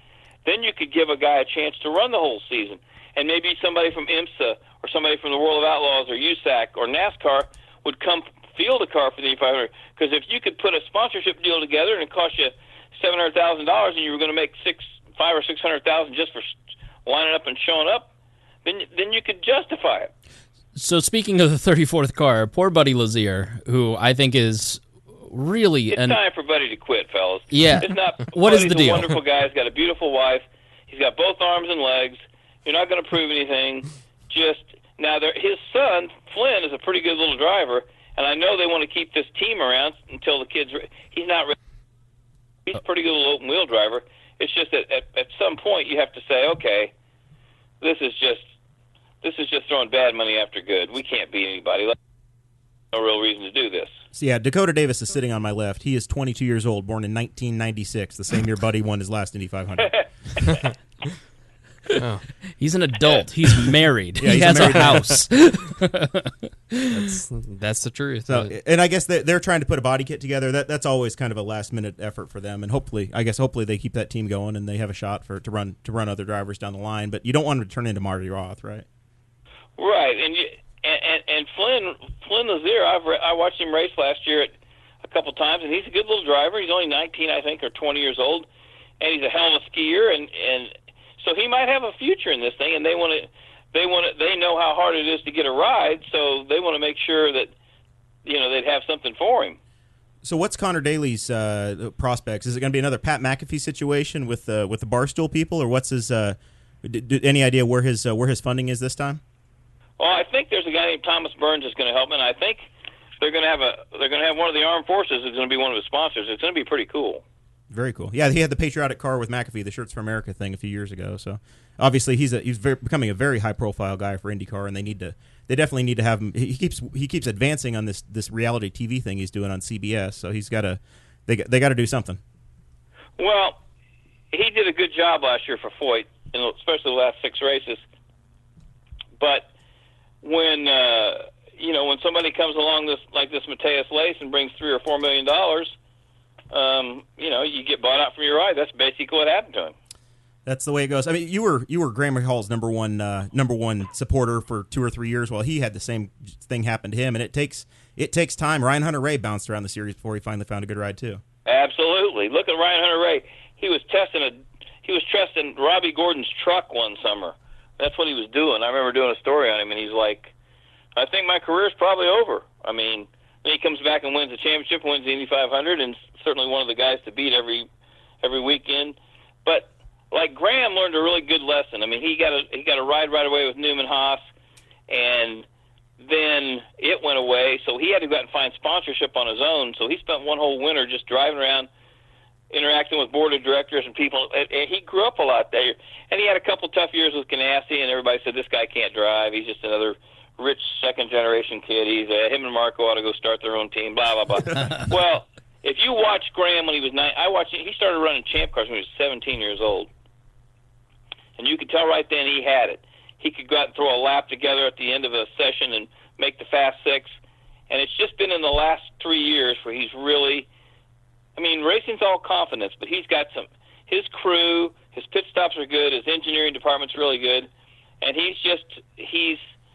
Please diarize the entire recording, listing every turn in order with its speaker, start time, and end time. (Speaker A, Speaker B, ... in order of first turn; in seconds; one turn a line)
Speaker A: 0.5-18.1
Speaker A: 18.6-20.1
Speaker B: 20.7-26.2
Speaker A: 25.9-41.6
Speaker B: 27.5-29.1
Speaker A: 42.7-46.9
Speaker A: 47.8-48.4
Speaker A: 49.2-52.0
Speaker A: 52.9-53.9
Speaker C: 54.1-60.0
Speaker D: 62.0-62.3
Speaker B: 62.6-67.0
Speaker C: 64.2-65.1
Speaker D: 64.6-65.2
Speaker D: 66.9-68.5
Speaker C: 68.3-78.9
Speaker A: 79.8-84.5
Speaker A: 85.0-88.5
Speaker A: 89.0-97.5
Speaker A: 98.2-99.6
Speaker C: 100.2-109.2
Speaker A: 110.0-112.6
Speaker A: 113.2-117.2
Speaker C: 117.7-132.2
Speaker A: 133.2-133.6
Speaker A: 134.3-137.8
Speaker A: 139.2-139.5
Speaker A: 140.2-145.7
Speaker A: 146.5-149.7
Speaker C: 150.4-161.2
Speaker A: 161.4-170.3
Speaker A: 170.9-177.7
Speaker A: 178.2-184.2
Speaker A: 184.9-185.4
Speaker A: 186.0-191.7
Speaker A: 192.5-209.9
Speaker A: 211.4-217.1
Speaker A: 217.7-220.5
Speaker A: 221.4-227.5
Speaker A: 228.0-229.4